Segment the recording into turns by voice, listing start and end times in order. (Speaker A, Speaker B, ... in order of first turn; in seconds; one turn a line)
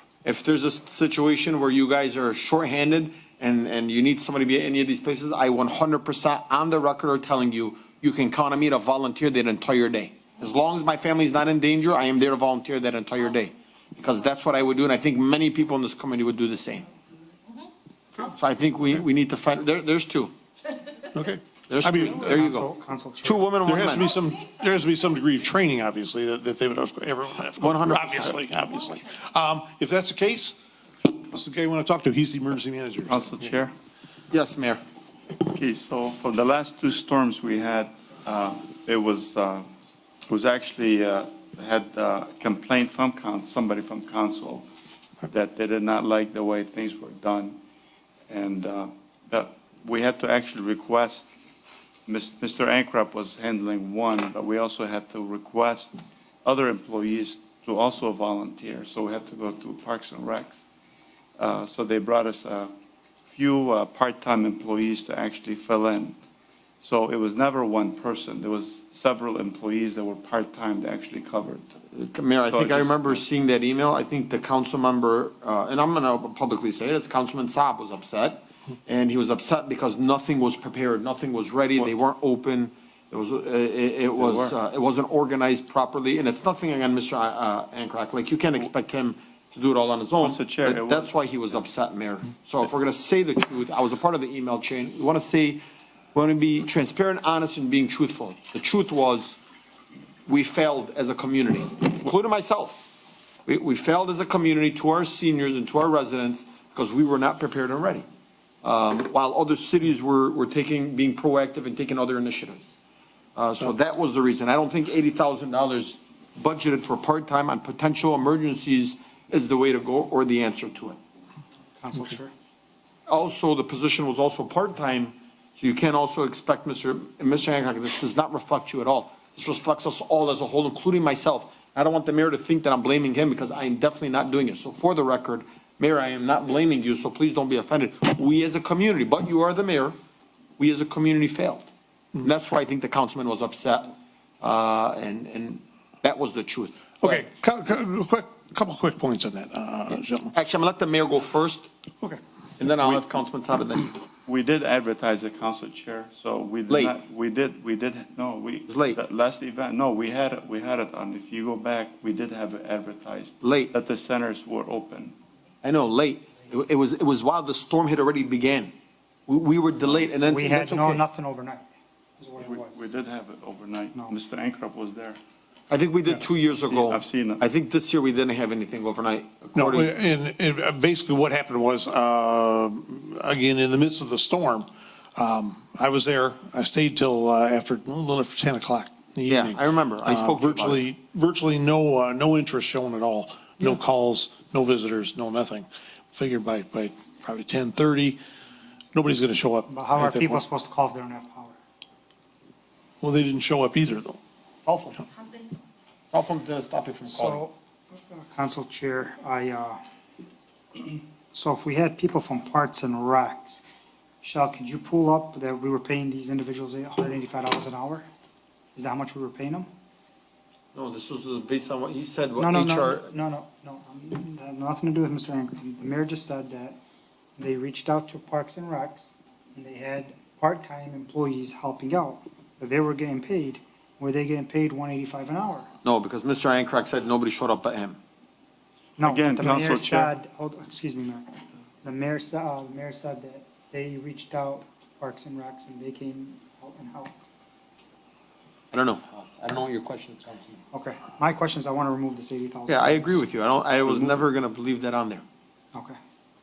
Speaker A: 0.2-16.9
Speaker A: 18.2-20.3
Speaker B: 21.1-22.5
Speaker A: 21.7-22.7
Speaker C: 22.2-23.5
Speaker A: 23.2-24.1
Speaker B: 23.6-30.6
Speaker A: 27.6-28.4
Speaker B: 31.2-33.5
Speaker D: 33.1-33.7
Speaker A: 34.3-34.8
Speaker D: 35.5-39.7
Speaker D: 40.3-44.7
Speaker D: 45.3-47.6
Speaker D: 48.3-51.3
Speaker D: 52.1-60.6
Speaker D: 61.4-62.7
Speaker D: 63.3-66.2
Speaker D: 66.8-71.7
Speaker A: 71.9-95.6
Speaker D: 72.5-73.2
Speaker D: 84.2-84.5
Speaker D: 90.2-91.1
Speaker A: 96.1-99.4
Speaker A: 100.3-102.9
Speaker A: 103.5-108.0
Speaker A: 108.6-112.8
Speaker A: 113.4-121.0
Speaker C: 121.8-122.3
Speaker A: 123.1-139.9
Speaker A: 140.6-141.7
Speaker A: 142.2-147.3
Speaker B: 147.0-150.3
Speaker A: 149.9-151.7
Speaker A: 152.6-154.0
Speaker D: 152.8-153.1
Speaker D: 154.2-165.2
Speaker A: 156.7-156.9
Speaker A: 158.7-159.0
Speaker A: 163.4-163.7
Speaker A: 165.6-168.7
Speaker A: 169.3-171.0
Speaker C: 170.2-171.7
Speaker C: 172.2-172.8
Speaker D: 172.4-175.2
Speaker C: 173.9-174.2
Speaker A: 175.7-179.9
Speaker D: 176.5-177.4
Speaker B: 179.6-198.2
Speaker A: 189.3-190.9
Speaker B: 198.9-200.4
Speaker C: 199.7-201.6
Speaker B: 203.0-204.2
Speaker A: 204.6-205.1
Speaker A: 206.1-207.4
Speaker C: 207.1-209.8
Speaker C: 210.8-213.6
Speaker C: 214.2-218.1
Speaker C: 218.8-219.7
Speaker A: 220.7-223.2
Speaker C: 222.4-226.8
Speaker C: 227.4-235.7
Speaker A: 235.8-238.0
Speaker C: 239.0-241.3
Speaker D: 239.0-240.1
Speaker C: 241.8-247.1
Speaker A: 248.7-250.6
Speaker C: 250.7-253.2
Speaker A: 252.7-255.2
Speaker D: 253.8-254.2